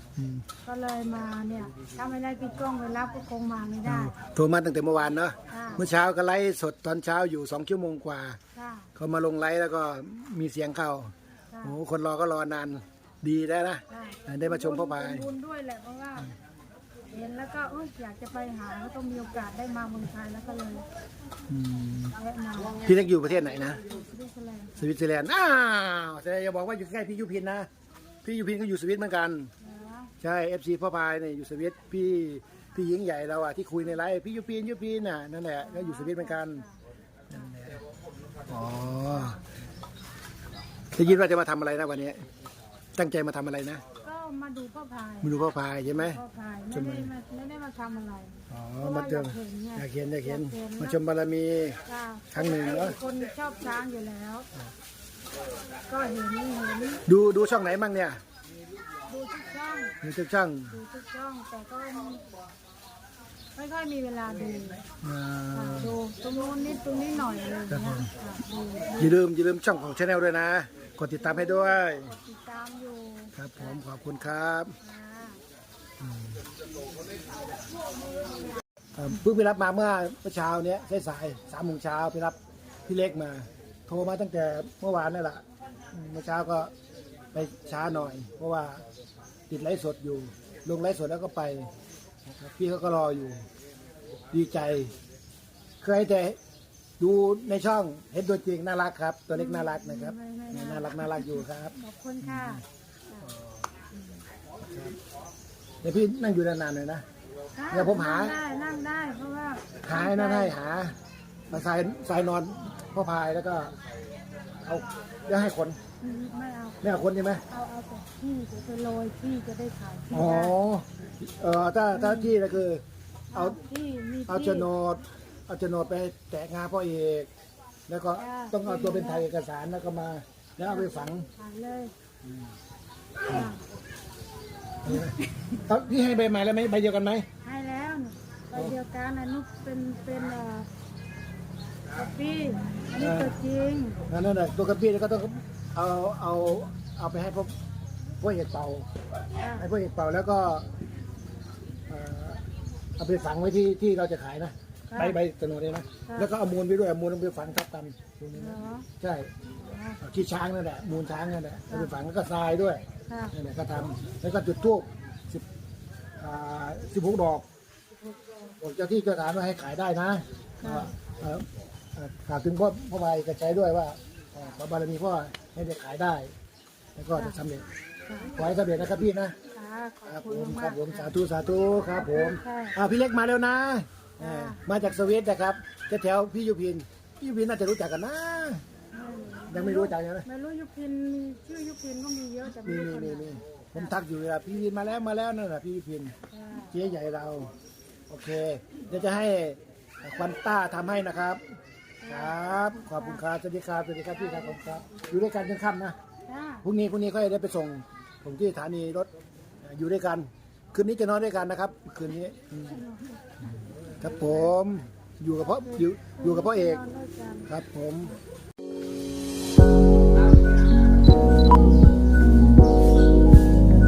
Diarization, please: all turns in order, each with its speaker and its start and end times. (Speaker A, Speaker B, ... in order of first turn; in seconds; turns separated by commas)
Speaker A: 0.2-0.5, Speaker B: 0.7-4.2, Speaker A: 3.9-8.4, Speaker B: 5.5-5.8, Speaker B: 8.5-8.9, Speaker A: 9.0-15.3, Speaker B: 13.9-16.3, Speaker B: 17.1-20.9, Speaker A: 21.5-22.2, Speaker B: 22.1-22.9, Speaker A: 22.8-23.8, Speaker B: 23.6-24.8, Speaker A: 24.8-27.7, Speaker A: 28.2-29.5, Speaker B: 29.6-30.1, Speaker A: 30.2-36.6, Speaker B: 35.6-36.8, Speaker A: 37.3-37.8, Speaker A: 38.5-39.4, Speaker B: 39.0-39.4, Speaker A: 41.0-42.2, Speaker A: 43.0-43.8, Speaker B: 44.0-51.0, Speaker A: 45.2-47.1, Speaker A: 48.5-51.8, Speaker B: 51.9-54.5, Speaker A: 52.3-53.0, Speaker B: 55.9-57.0, Speaker A: 57.1-58.2, Speaker B: 59.1-60.0, Speaker A: 60.0-60.8, Speaker B: 60.7-62.2, Speaker B: 63.5-64.8, Speaker A: 65.0-66.0, Speaker B: 65.5-69.2, Speaker A: 67.7-68.1, Speaker A: 69.0-72.2, Speaker B: 71.2-73.8, Speaker A: 73.3-74.8, Speaker B: 74.8-75.4, Speaker A: 76.0-76.4, Speaker A: 79.0-86.7, Speaker A: 87.3-88.8, Speaker A: 89.5-91.7, Speaker A: 92.3-93.5, Speaker A: 94.3-94.9, Speaker A: 95.8-96.4, Speaker A: 97.0-102.6, Speaker B: 99.3-103.3, Speaker A: 103.2-103.6, Speaker B: 103.9-104.2, Speaker A: 104.7-105.0, Speaker A: 105.8-107.0, Speaker B: 107.5-110.6, Speaker A: 107.7-108.3, Speaker A: 109.8-111.0, Speaker A: 111.5-113.7, Speaker A: 114.6-115.8, Speaker B: 116.0-116.8, Speaker A: 116.8-117.4, Speaker B: 117.5-120.6, Speaker A: 120.1-122.8, Speaker B: 121.9-122.4, Speaker B: 123.3-124.7, Speaker A: 123.3-123.6, Speaker A: 124.3-127.3, Speaker A: 127.9-131.3, Speaker B: 128.2-129.3, Speaker B: 130.6-131.9, Speaker B: 133.3-133.7, Speaker B: 134.8-135.3, Speaker A: 134.8-137.3, Speaker B: 137.4-140.7, Speaker B: 141.9-144.0, Speaker A: 143.0-143.3, Speaker A: 144.1-147.5, Speaker A: 148.2-148.9, Speaker B: 149.4-149.7, Speaker A: 149.6-150.7, Speaker A: 151.9-152.4, Speaker A: 153.0-159.3, Speaker B: 154.9-155.2, Speaker B: 158.3-158.9, Speaker B: 159.6-160.0, Speaker A: 160.0-165.4, Speaker B: 161.7-161.9, Speaker B: 163.1-163.4, Speaker A: 166.2-167.5, Speaker B: 167.9-168.6, Speaker A: 168.6-176.3, Speaker B: 170.6-170.9, Speaker A: 177.0-177.7, Speaker B: 178.1-178.4, Speaker A: 178.3-179.4, Speaker B: 179.5-181.1, Speaker A: 180.1-188.6, Speaker B: 182.0-182.8, Speaker B: 184.2-184.7, Speaker B: 188.9-194.0, Speaker A: 189.5-190.3, Speaker A: 192.6-196.2, Speaker B: 196.3-196.7, Speaker A: 196.7-197.5, Speaker A: 198.1-201.4, Speaker B: 202.0-203.2, Speaker A: 202.1-206.0, Speaker B: 204.1-205.1, Speaker B: 206.3-206.7, Speaker A: 206.6-209.1, Speaker A: 209.6-212.8, Speaker B: 212.7-213.5, Speaker A: 214.0-216.8, Speaker B: 215.4-217.5, Speaker A: 217.5-218.2